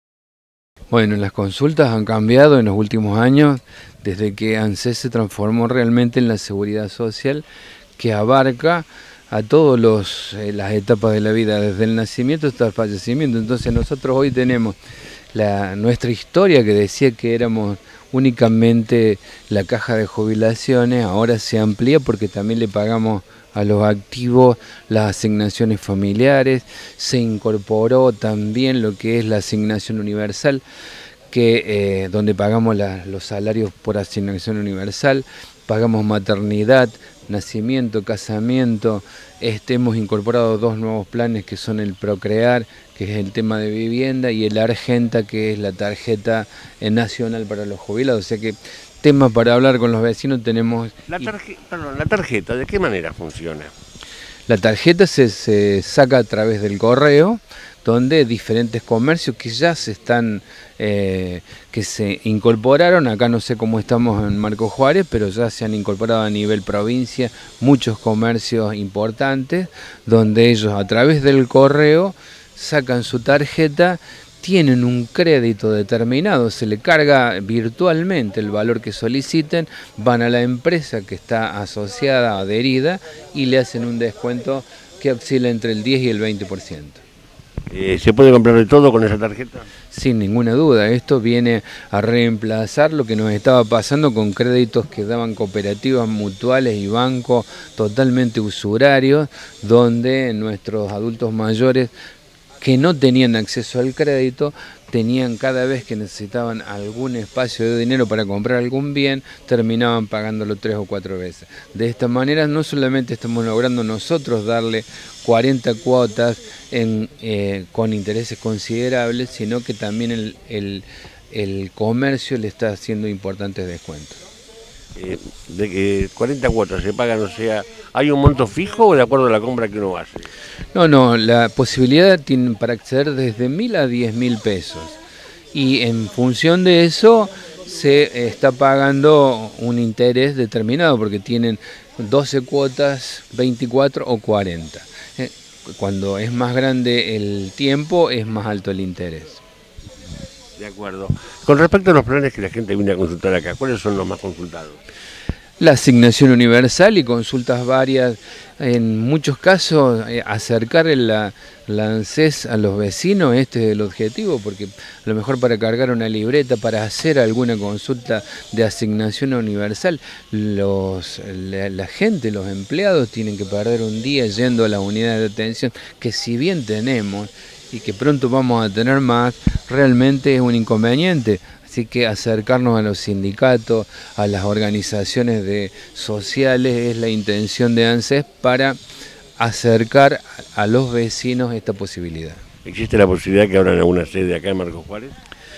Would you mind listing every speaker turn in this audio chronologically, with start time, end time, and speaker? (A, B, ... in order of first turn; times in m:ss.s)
0:00.9-0:07.4 A
0:08.0-0:14.8 A
0:15.3-0:30.6 A
0:31.3-0:51.3 A
0:51.1-0:53.7 B
0:54.5-1:27.0 A
1:27.7-1:29.7 B
1:29.9-1:41.9 A
1:42.6-2:04.2 A
2:05.0-2:10.3 B
2:10.7-2:15.0 A
2:15.5-2:29.4 A
2:30.6-2:34.8 B
2:35.6-3:08.8 A
3:09.4-3:12.4 A
3:12.6-3:15.2 B